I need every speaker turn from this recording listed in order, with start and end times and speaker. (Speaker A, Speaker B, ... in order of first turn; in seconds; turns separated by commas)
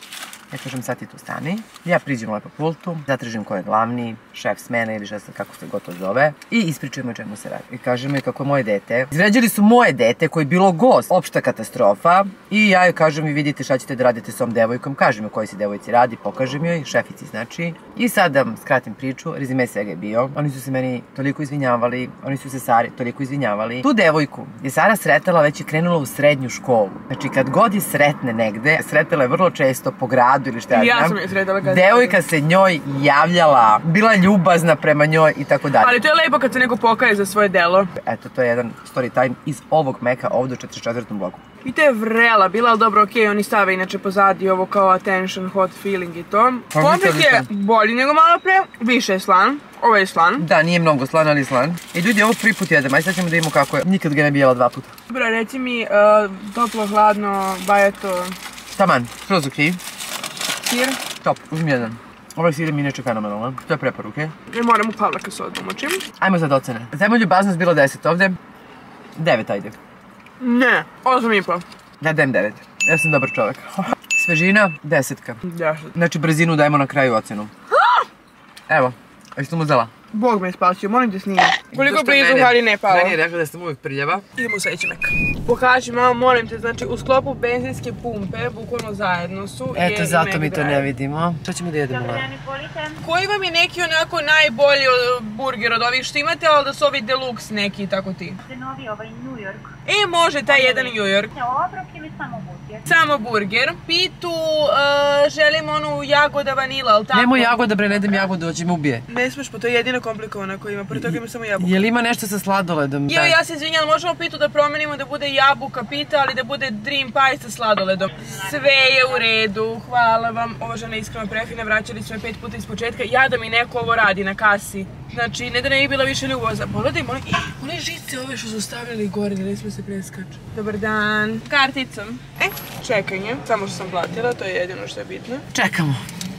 Speaker A: 0.5-36.0, Speaker B: 30.7-32.2, Speaker B: 35.8-37.9, Speaker A: 38.0-41.4, Speaker B: 41.6-50.4, Speaker A: 46.7-47.5, Speaker A: 50.4-54.9, Speaker B: 55.1-58.3, Speaker A: 58.7-59.8, Speaker B: 60.6-61.0, Speaker A: 61.0-64.3, Speaker B: 64.5-66.0, Speaker A: 66.2-68.4, Speaker A: 69.2-69.8, Speaker B: 70.4-71.6, Speaker A: 72.0-75.4, Speaker B: 75.5-75.9, Speaker A: 75.9-77.5, Speaker B: 77.8-78.0, Speaker A: 78.7-79.9, Speaker B: 80.1-83.2, Speaker A: 81.7-84.2, Speaker B: 84.3-90.8, Speaker A: 89.7-92.3, Speaker C: 91.9-93.0, Speaker B: 93.0-98.4, Speaker C: 98.4-99.7, Speaker B: 99.8-101.3, Speaker C: 100.5-102.9, Speaker B: 102.8-107.6, Speaker A: 107.1-109.0, Speaker B: 109.1-111.9, Speaker A: 110.9-113.3, Speaker B: 113.1-135.4, Speaker A: 135.5-136.0